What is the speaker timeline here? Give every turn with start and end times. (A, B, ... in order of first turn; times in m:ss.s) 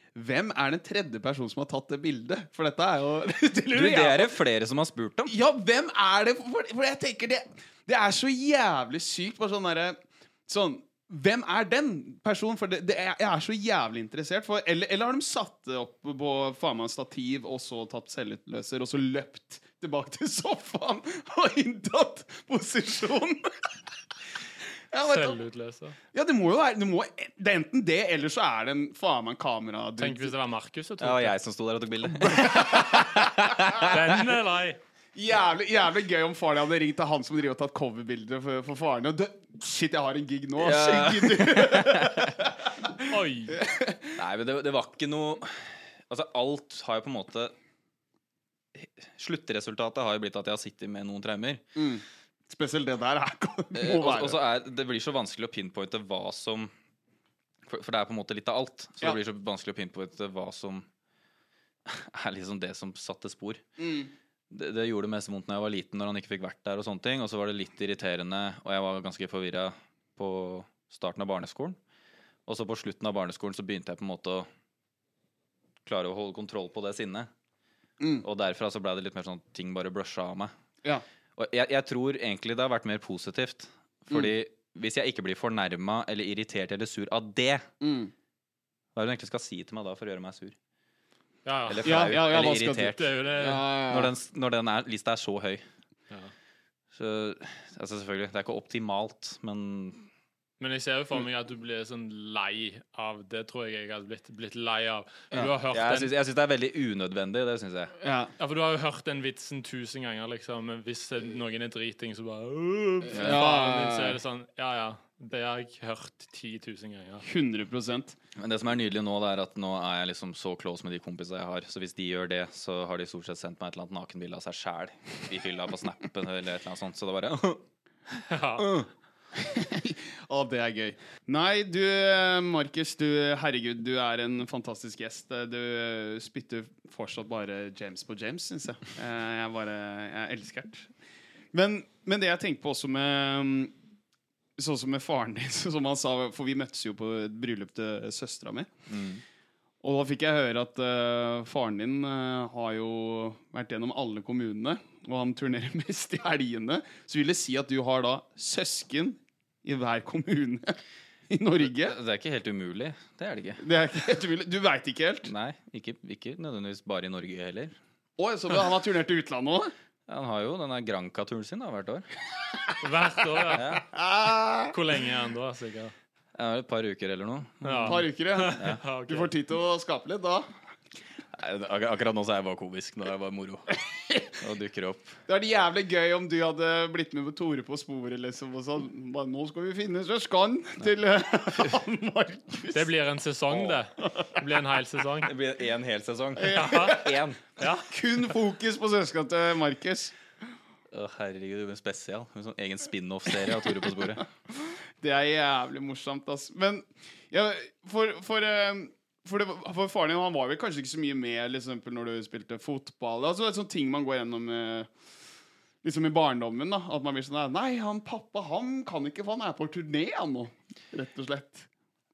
0:00.1-0:04.4 A
0:03.7-0:05.3 B
0:05.3-0:23.5 A
0:24.9-0:25.4 A
0:25.0-0:26.0 C
0:26.1-0:30.3 A
0:30.0-0:31.3 C
0:31.0-0:34.2 B
0:32.1-0:33.8 A
0:33.8-0:34.8 C
0:35.1-0:44.2 A
0:40.6-0:42.4 B
0:43.1-0:43.6 C
0:44.2-0:47.5 B
0:48.7-0:51.6 B
0:51.7-0:54.4 A
0:53.7-0:56.7 B
0:57.6-1:00.9 B
1:01.8-1:03.6 B
1:03.8-1:04.1 A
1:04.5-1:11.8 B
1:12.4-1:14.5 B
1:15.8-1:17.3 B
1:18.0-1:18.2 A
1:18.2-1:20.5 B
1:21.4-1:27.7 B
1:27.8-1:28.1 A
1:28.9-1:30.6 B
1:31.4-1:32.2 C
1:31.7-1:33.1 B
1:31.8-1:34.1 A
1:32.7-1:33.7 C
1:33.9-1:35.6 B
1:36.9-1:40.1 B
1:40.6-1:46.1 C
1:45.7-1:47.9 B
1:48.0-1:48.3 A
1:48.4-1:57.2 C
1:53.1-1:54.2 A
1:57.2-1:58.2 A
1:58.4-2:07.6 B
2:08.3-2:08.7 C
2:08.6-2:20.9 A
2:21.5-2:23.7 A
2:24.6-2:28.7 A
2:28.9-2:29.2 B
2:29.8-2:42.0 A
2:41.6-2:43.6 B
2:43.6-2:45.3 A
2:45.2-2:47.8 B
2:48.2-2:49.7 A
2:50.1-2:52.1 B
2:52.8-2:53.8 C
2:53.5-2:53.8 B
2:53.9-2:54.7 A
2:54.7-2:55.9 C
2:56.4-2:58.0 B
2:57.6-2:59.3 C
2:57.8-3:00.5 A
2:58.5-2:58.8 B
3:01.3-3:03.6 B
3:03.7-3:04.3 A
3:04.4-3:05.2 B
3:05.3-3:12.9 A
3:12.7-3:15.3 C
3:14.0-3:14.4 A
3:15.2-3:17.4 B
3:16.3-3:20.1 A
3:16.5-3:17.0 C
3:17.6-3:17.9 C
3:20.9-3:24.2 B
3:24.0-3:34.9 A
3:35.8-3:41.7 A